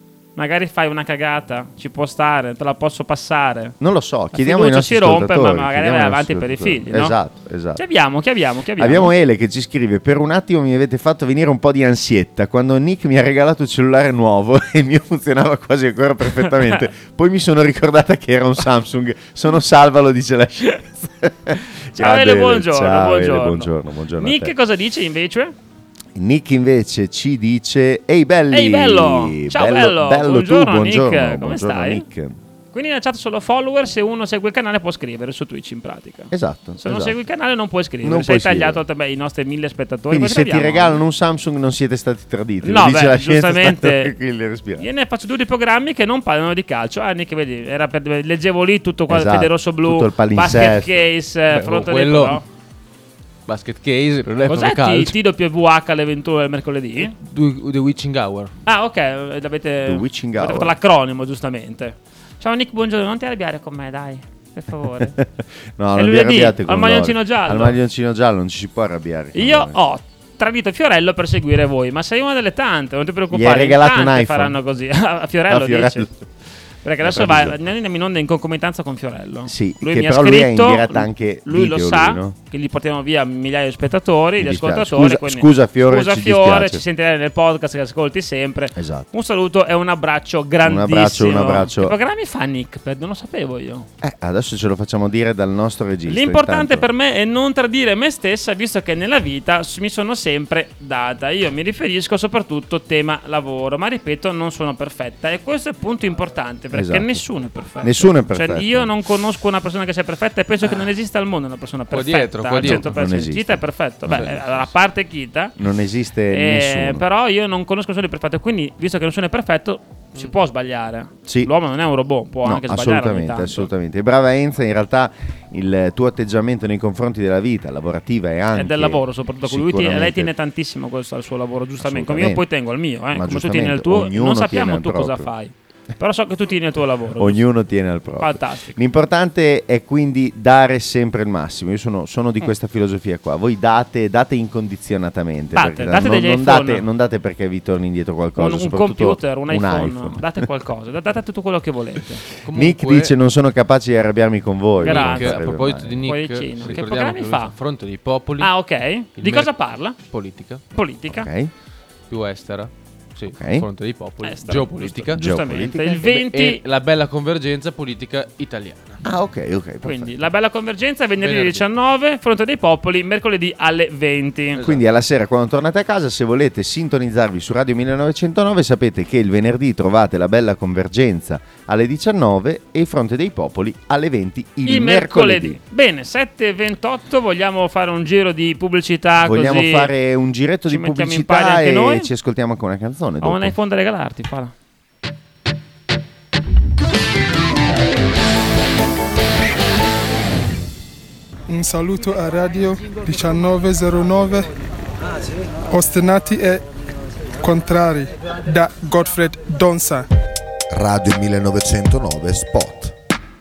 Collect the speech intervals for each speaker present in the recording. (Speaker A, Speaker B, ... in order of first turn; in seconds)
Speaker A: 0.3-3.7, 4.3-7.2, 7.8-9.1, 21.9-25.5, 28.5-32.0, 32.7-41.0, 42.6-44.1, 44.8-52.4, 54.5-57.1, 58.6-65.2, 65.9-67.8, 69.3-76.1, 76.8-93.9, 96.1-115.5, 116.3-123.7, 128.5-137.4, 138.2-138.8, 145.5-146.8, 148.3-152.2, 154.8-155.4, 156.0-157.5, 158.4-160.0, 160.7-161.3, 164.2-166.6, 169.8-174.6, 184.7-189.9, 190.7-192.1, 193.2-194.5
Speaker B: 3.8-7.8, 8.8-24.5, 26.1-32.4, 36.3-37.1, 38.0-38.8, 40.1-44.9, 49.1-51.1, 59.8-60.7, 65.0-69.8, 73.3-74.5, 75.5-76.2, 77.0-77.6, 79.5-82.3, 84.4-86.8, 88.8-89.1, 90.6-91.9, 94.0-96.9, 106.7-107.2, 107.8-108.9, 112.6-114.4, 115.6-117.0, 121.2-121.5, 122.4-130.3, 131.8-132.4, 133.1-135.3, 137.2-150.3, 152.5-156.0, 161.1-161.5, 163.3-163.7, 165.1-166.1, 169.0-170.1, 174.6-185.6, 189.2-193.5
Speaker C: 51.5-52.4, 53.5-55.1, 57.1-58.5, 111.9-112.9, 152.4-153.1, 154.8-158.5, 159.2-160.6, 162.1-165.2, 166.0-169.0, 171.2-171.6
Speaker D: 201.5-204.5, 205.7-206.6, 207.4-210.1
Speaker E: 210.7-212.9